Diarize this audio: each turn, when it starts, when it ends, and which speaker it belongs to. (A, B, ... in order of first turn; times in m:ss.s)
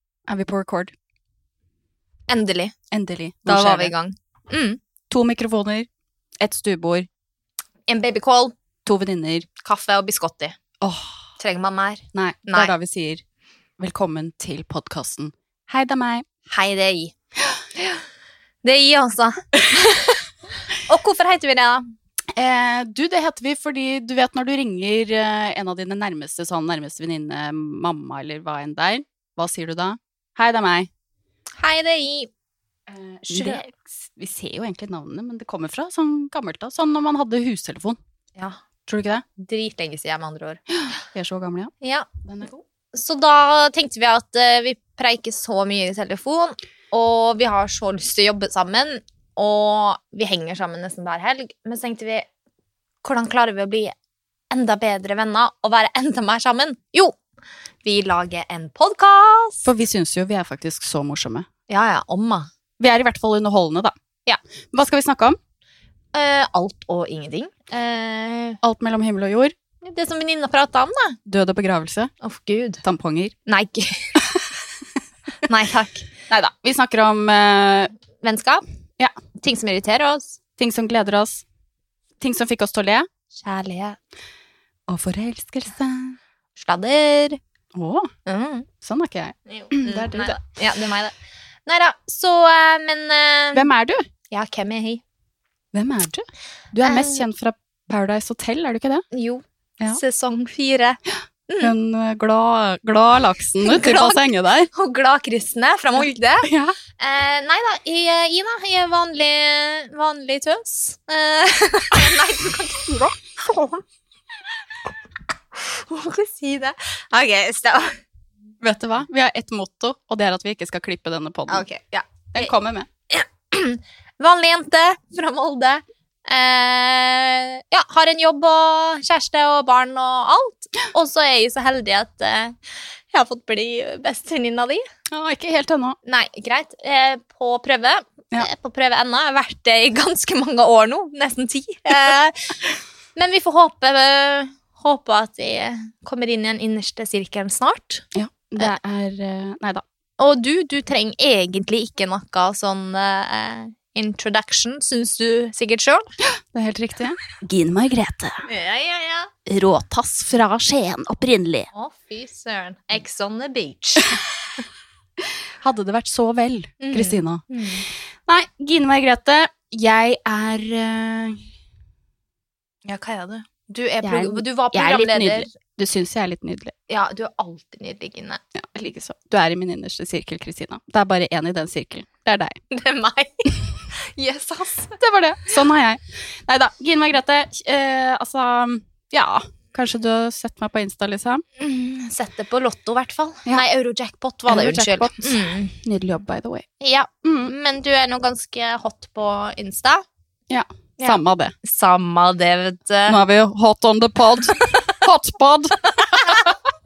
0:00.3-0:00.9 A
0:02.3-0:02.7 B
0:02.9-0:03.9 A
0:03.5-0:04.8 B
0:05.1-0:05.9 A
0:06.4-0:07.1 A
0:07.9-0:08.5 B
0:08.8-0:09.5 A
0:09.6-0:10.6 B
0:10.8-0:11.1 A
0:11.4-0:12.7 B
0:12.1-0:13.2 A
0:13.8-0:16.3 A
0:16.5-0:17.1 B
0:18.6-0:20.2 B
0:20.9-0:21.8 B
0:22.4-0:30.9 A
0:31.6-0:32.3 B
0:32.9-0:38.0 A
0:33.2-0:33.7 B
0:38.9-0:39.2 A
0:39.4-0:40.6 B
0:40.8-0:41.7 A
0:41.8-0:42.1 B
0:42.2-0:42.6 A
0:42.9-0:52.3 B
0:53.0-0:54.0 B
0:54.5-0:57.2 B
0:57.8-0:59.7 B
0:59.6-1:01.5 A
1:01.7-1:02.5 B
1:02.8-1:03.9 A
1:04.7-1:05.4 A
1:06.1-1:08.6 B
1:08.6-1:09.5 A
1:09.8-1:11.2 B
1:11.3-1:12.1 A
1:12.2-1:12.8 B
1:12.8-1:13.4 A
1:13.5-1:14.2 B
1:15.5-1:16.1 B
1:16.3-1:17.9 A
1:18.2-1:18.6 B
1:19.4-1:20.4 B
1:20.6-1:21.4 A
1:22.2-1:23.1 A
1:23.3-1:24.0 B
1:24.9-1:26.2 A
1:26.6-1:27.4 B
1:27.7-1:28.1 A
1:28.3-1:28.7 B
1:28.8-1:30.4 A
1:29.5-1:31.1 B
1:31.7-1:33.7 B
1:33.5-1:34.0 A
1:34.3-1:35.0 B
1:35.7-1:39.0 A
1:36.8-1:37.3 B
1:39.1-1:41.7 B
1:41.6-1:44.7 A
1:43.6-1:53.8 B
1:46.4-1:46.8 A
1:55.6-1:58.0 B
1:58.6-2:01.6 A
2:01.5-2:02.5 B
2:02.3-2:02.9 A
2:03.1-2:12.6 B
2:13.1-2:14.8 B
2:15.1-2:16.0 A
2:16.0-2:28.0 B
2:28.2-2:29.8 A
2:30.2-2:36.1 B
2:36.2-2:38.5 A
2:38.5-2:39.3 B
2:39.5-2:41.7 A
2:41.7-2:44.2 B
2:45.6-2:47.5 A
2:46.8-2:47.9 B
2:48.3-2:51.4 A
2:52.8-2:55.5 B
2:54.0-2:56.7 A
2:56.9-2:58.4 B
2:58.6-3:02.6 A
3:02.7-3:05.0 B
3:05.0-3:11.4 A
3:11.6-3:15.7 B
3:14.5-3:16.6 A
3:16.8-3:20.0 B
3:17.2-3:17.5 A
3:20.5-3:21.5 A
3:21.0-3:23.2 B
3:23.1-3:26.6 A